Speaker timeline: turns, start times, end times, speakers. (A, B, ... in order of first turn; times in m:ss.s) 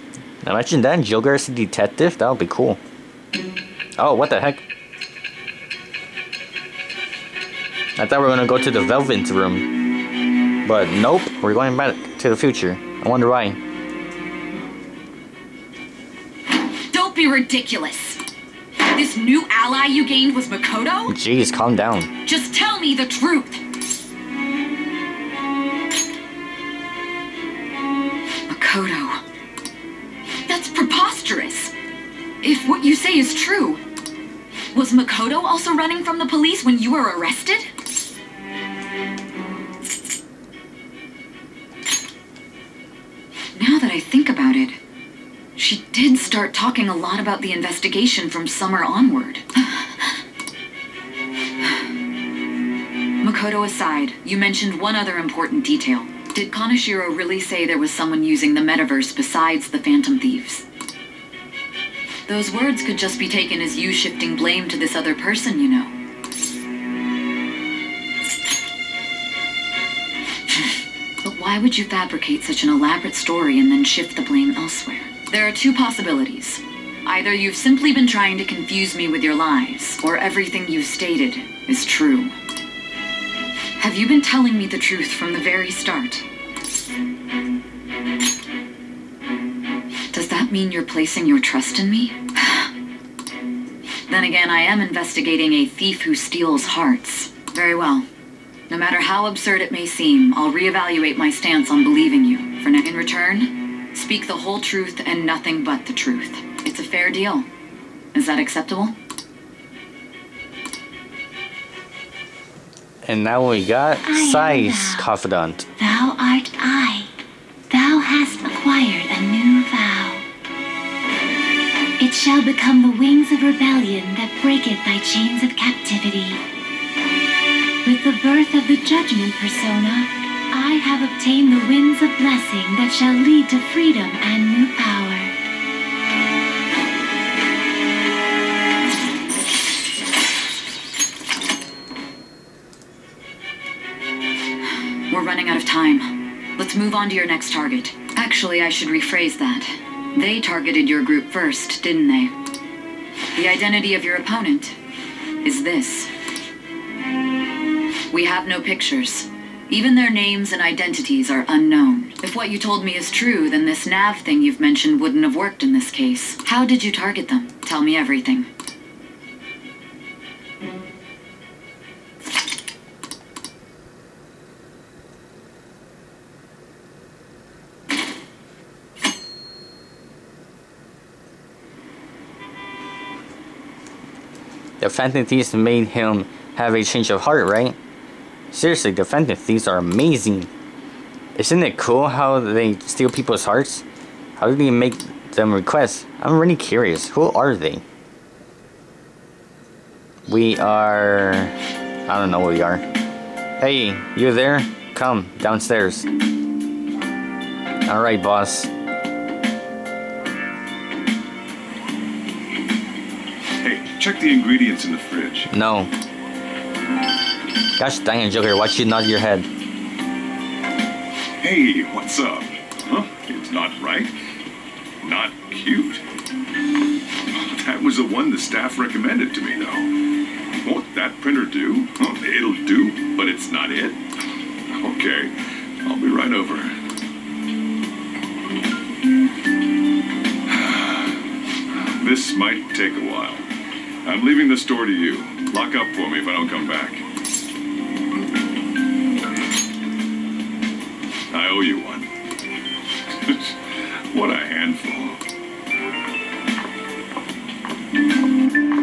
0:00.4-0:02.8 A
0:04.0-0:04.6 A
0:08.0-0:09.7 A
0:10.6-0:13.6 A
0:16.9-0:18.2 B
0:18.9-0:21.1 B
0:21.1-0:22.1 A
0:22.2-0:23.6 B
0:28.5-0:29.2 B
0:30.5-0:31.7 B
0:32.4-0:33.8 B
0:34.7-0:37.7 B
0:43.5-0:44.8 B
0:45.5-0:50.1 B
0:53.2-1:00.6 B
1:02.3-1:05.9 B
1:11.2-1:22.3 B
1:23.8-1:26.2 B
1:30.1-1:32.7 B
1:34.1-1:38.0 B
1:38.7-1:47.5 B
1:48.1-1:48.9 B
1:53.0-1:55.7 A
1:54.0-1:55.1 C
1:55.8-1:57.1 C
1:57.7-2:00.2 C
2:02.0-2:06.4 C
2:07.8-2:15.3 C
2:25.1-2:32.3 B
2:33.4-2:34.8 B
2:35.4-2:36.1 B
2:38.1-2:48.5 B
3:04.8-3:07.8 A
3:08.5-3:10.5 A
3:11.4-3:13.8 A
3:14.4-3:17.8 A
3:20.3-3:21.5 A
3:22.1-3:22.8 A
3:23.6-3:26.1 A
3:27.9-3:28.7 A
3:33.6-3:35.5 D
3:35.5-3:35.9 A
3:37.8-3:39.5 A
3:41.4-3:44.1 D
3:45.0-3:46.0 D
3:47.4-3:49.9 D
3:50.6-3:54.0 D
3:54.7-3:55.3 D
3:55.8-3:56.7 D
4:00.5-4:01.2 D
4:02.0-4:03.4 D
4:04.0-4:07.0 D
4:11.3-4:12.1 D
4:13.1-4:13.6 D
4:14.1-4:15.2 D